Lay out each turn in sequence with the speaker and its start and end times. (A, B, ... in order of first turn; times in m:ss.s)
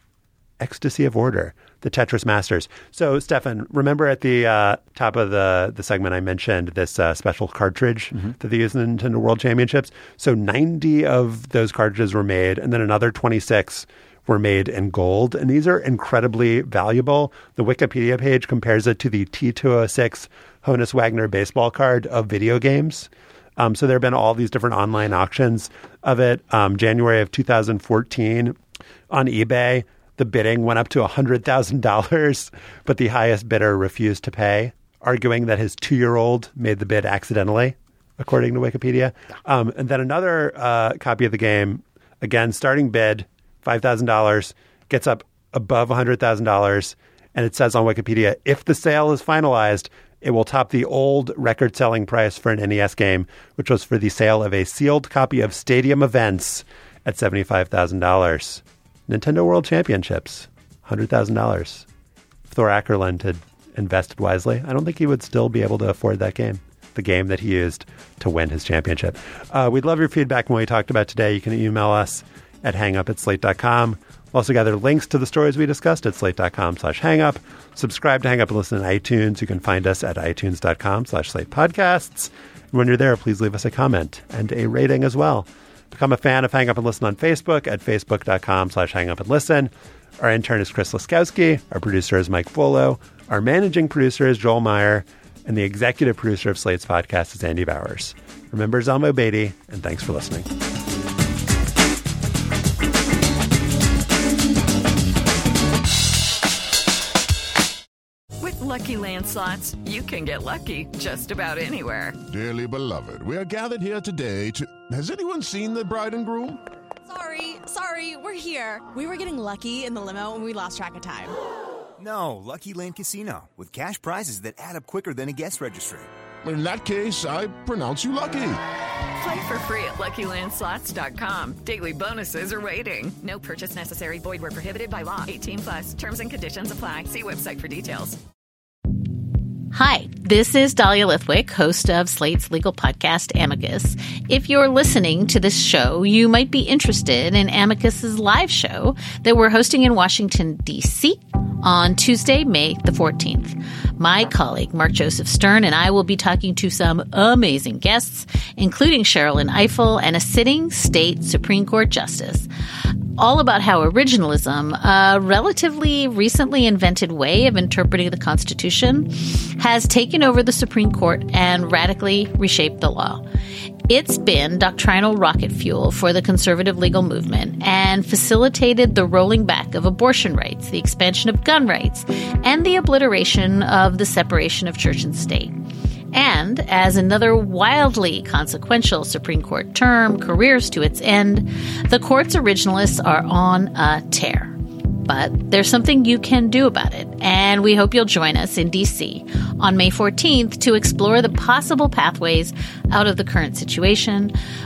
0:00.6-0:28.6 A
0:29.1-1:01.9 A
1:02.5-1:40.5 A
1:48.4-1:52.2 B
1:52.3-1:56.6 C
1:57.1-2:01.4 D
2:02.0-2:06.1 E
2:06.4-2:08.6 C
2:09.2-2:18.2 B
2:19.7-2:42.5 F
2:43.2-2:53.2 F
2:53.9-3:05.6 F
3:06.1-3:24.3 F